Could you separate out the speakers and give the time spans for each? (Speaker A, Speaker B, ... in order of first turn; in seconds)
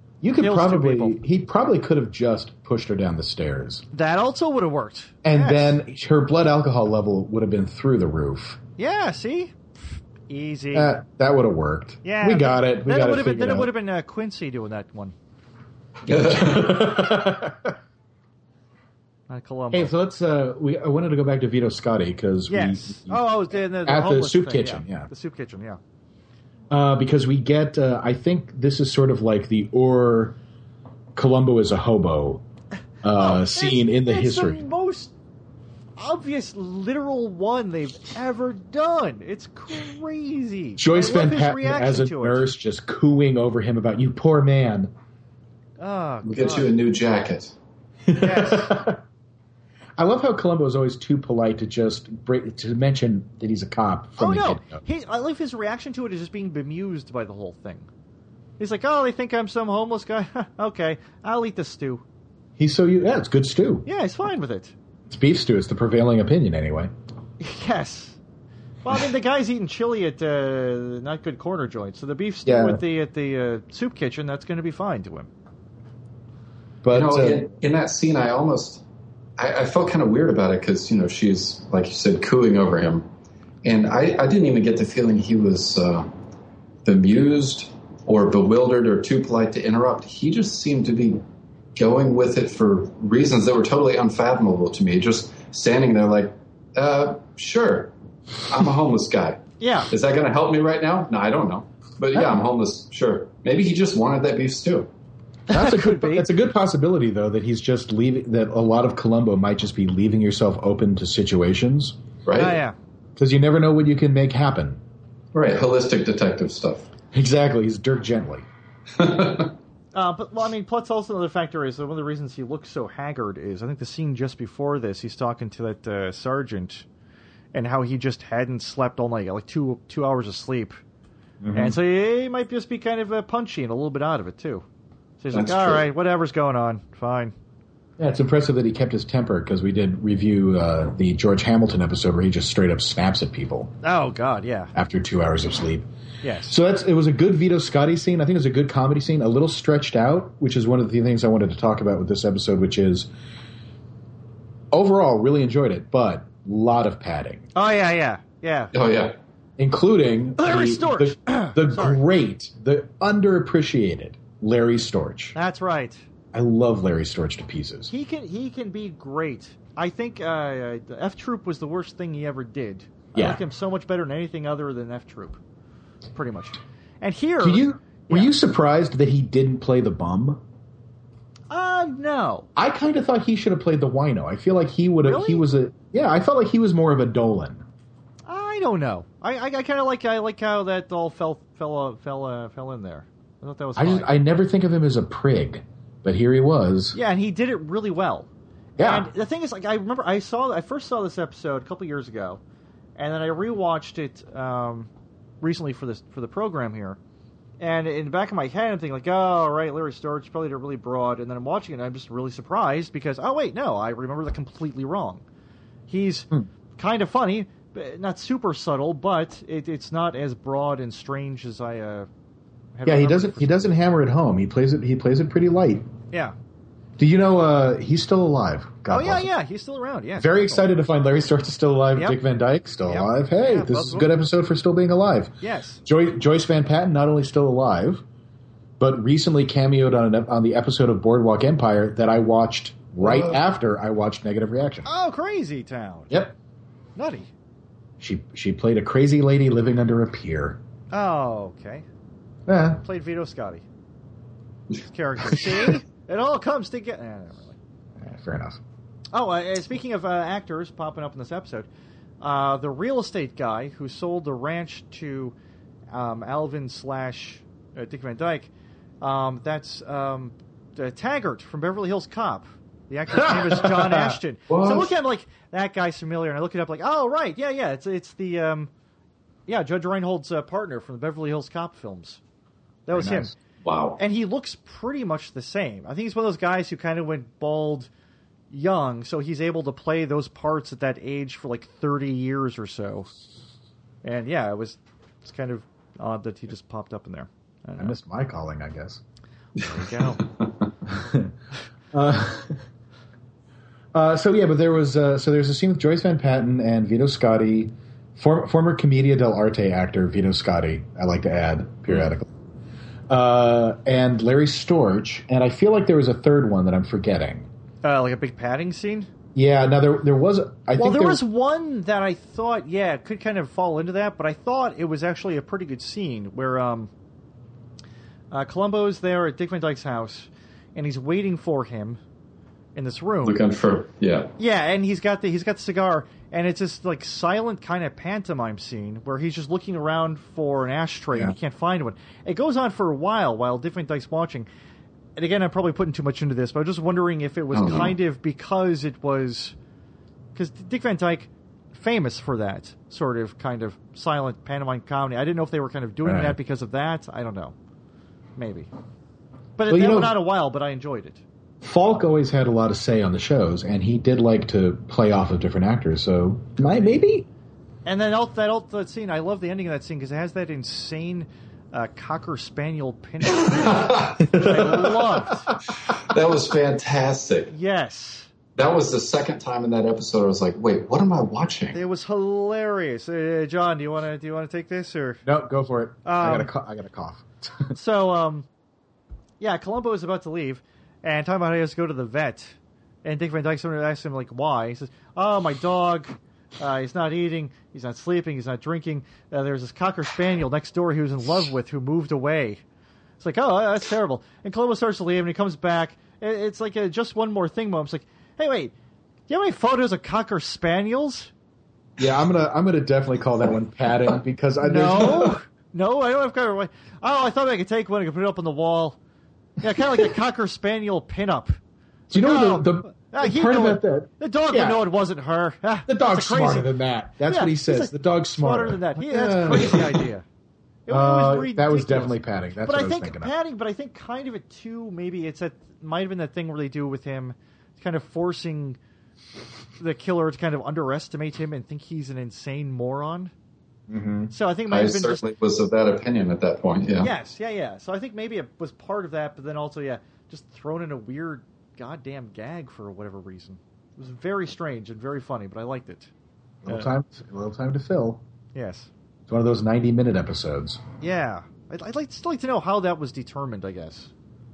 Speaker A: 0.2-3.8, 5.2-8.6, 10.7-13.7, 16.1-17.7, 19.7-25.1, 26.7-30.4, 31.1-32.4, 33.0-34.6, 40.8-44.9, 48.1-49.0, 50.0-54.8, 62.6-63.9, 65.1-66.9, 72.5-72.8, 76.8-77.5, 105.5-112.0, 113.2-114.8, 117.1-118.4, 131.4-131.8, 138.0-143.7, 144.7-145.9, 146.5-153.1, 154.7-157.5, 159.6-165.3, 166.3-167.9, 173.1-173.4, 177.4-180.4, 182.6-187.6, 193.8-197.0, 198.8-199.1, 222.8-225.9, 227.0-229.3, 230.2-235.3, 235.8-238.0, 238.8-244.9, 248.0-250.6, 252.5-252.8, 258.0-258.6, 273.2-274.1, 282.9-283.3, 297.8-299.0, 300.9-301.3, 301.9-302.6, 303.9-312.3, 313.1-317.5, 319.3-321.2, 356.0-356.4, 359.7-360.2, 361.6-367.3, 374.2-374.9, 385.2-387.7, 412.0-415.4, 422.1-424.8, 425.9-430.0, 430.9-433.3, 443.9-444.3, 456.6-458.2, 459.3-460.8
Speaker B: 0.4-1.2, 3.9-5.8, 8.8-9.6, 10.3-10.9, 12.0-15.1, 19.3-19.9, 22.5-25.8, 33.1-35.1, 36.0-42.5, 45.8-46.7, 48.1-48.7, 54.2-57.9, 58.6-62.0, 63.8-64.7, 67.4-68.2, 68.8-75.3, 99.6-99.9, 105.5-106.3, 112.3-112.7, 119.9-126.8, 127.5-130.8, 131.5-134.6, 135.2-137.3, 143.8-144.7, 146.2-146.5, 157.5-158.7, 160.4-162.0, 165.3-166.0, 167.9-175.4, 176.1-178.3, 181.5-182.5, 185.0-185.4, 188.3-194.1, 196.9-198.3, 198.8-202.4, 203.0-204.9, 205.4-207.0, 207.6-215.2, 215.9-222.1, 222.7-223.6, 228.9-230.7, 232.9-234.1, 235.4-235.8, 244.8-246.2, 246.9-247.3, 250.9-251.8, 252.8-253.6, 254.8-257.6, 259.1-261.7, 262.2-265.3, 265.9-268.5, 269.0-278.7, 279.5-282.2, 282.9-283.3, 284.0-287.9, 288.5-293.1, 294.0-297.9, 299.6-300.2, 317.8-319.1, 320.8-326.9, 328.3-332.0, 332.7-333.4, 334.4-344.5, 345.1-349.5, 350.3-357.5, 358.4-358.7, 359.6-361.2, 367.8-375.5, 377.5-378.3, 381.7-385.2, 386.0-386.5, 387.7-388.4, 389.4-402.6, 403.2-408.7, 409.3-411.3, 414.6-419.0, 419.6-421.6, 422.1-426.7, 427.2-430.2, 430.9-438.8, 439.8-443.3, 444.3-445.2, 447.0-456.1, 458.5-458.9, 461.0-464.1
Speaker C: 16.1-16.9, 46.2-47.5, 76.9-78.8, 79.4-83.0, 83.6-86.1, 86.8-91.2, 91.8-97.9, 98.5-104.9, 112.2-112.6, 115.3-116.9, 119.0-119.5, 135.3-135.8, 158.7-159.2, 243.0-243.4, 274.5-274.9, 283.6-284.0, 333.2-334.3, 347.5-347.9, 373.3-374.4, 375.9-377.5, 378.6-381.8, 444.7-447.1